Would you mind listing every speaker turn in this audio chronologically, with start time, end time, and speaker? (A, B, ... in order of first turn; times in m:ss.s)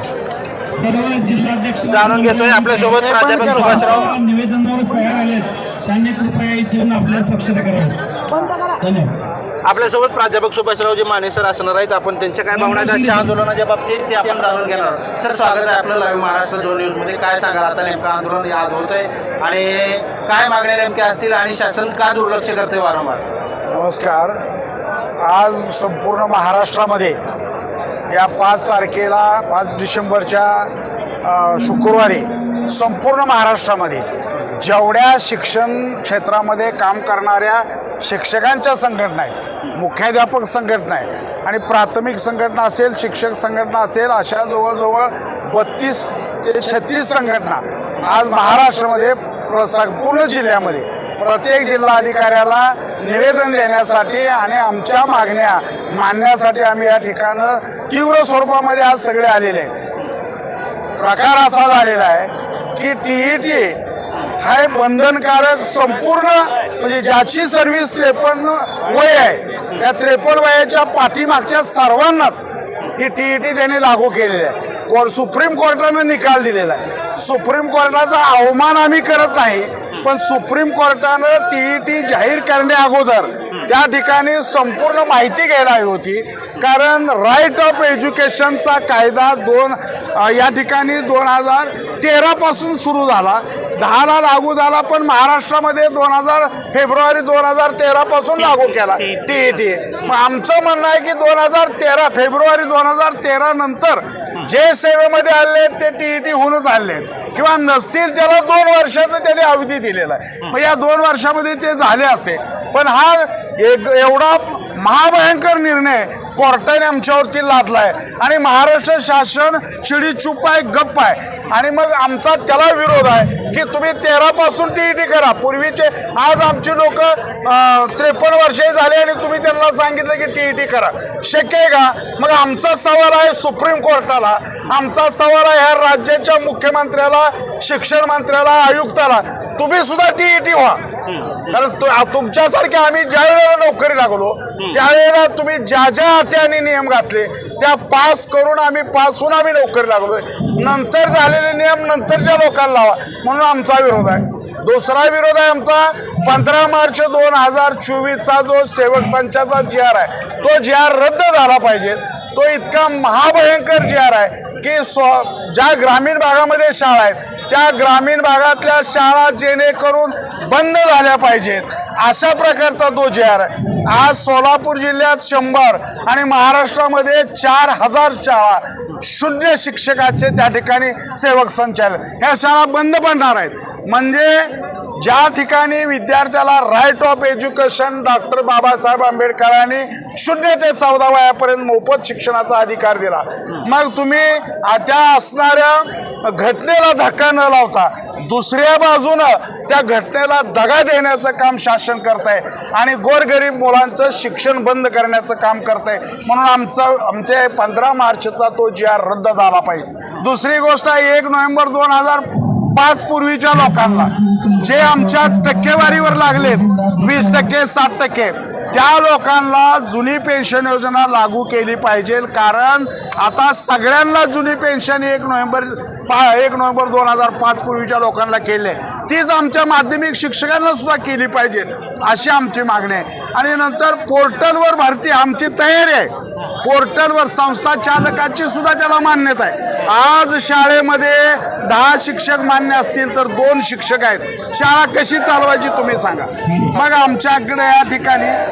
0:00.7-0:08.0 A
0:01.9-0:04.1 B
0:03.0-0:04.1 C
0:08.8-0:09.1 A
0:09.6-0:23.2 B
0:12.5-0:13.3 A
0:23.7-0:24.4 C
0:25.2-0:27.2 C
0:28.1-0:30.7 C
0:31.2-0:59.7 C
1:01.0-1:03.8 C
1:04.4-1:12.4 C
1:13.0-2:20.8 C
2:21.1-2:21.4 B
2:21.4-4:08.4 C
3:33.6-3:37.5 A
4:06.5-4:06.8 A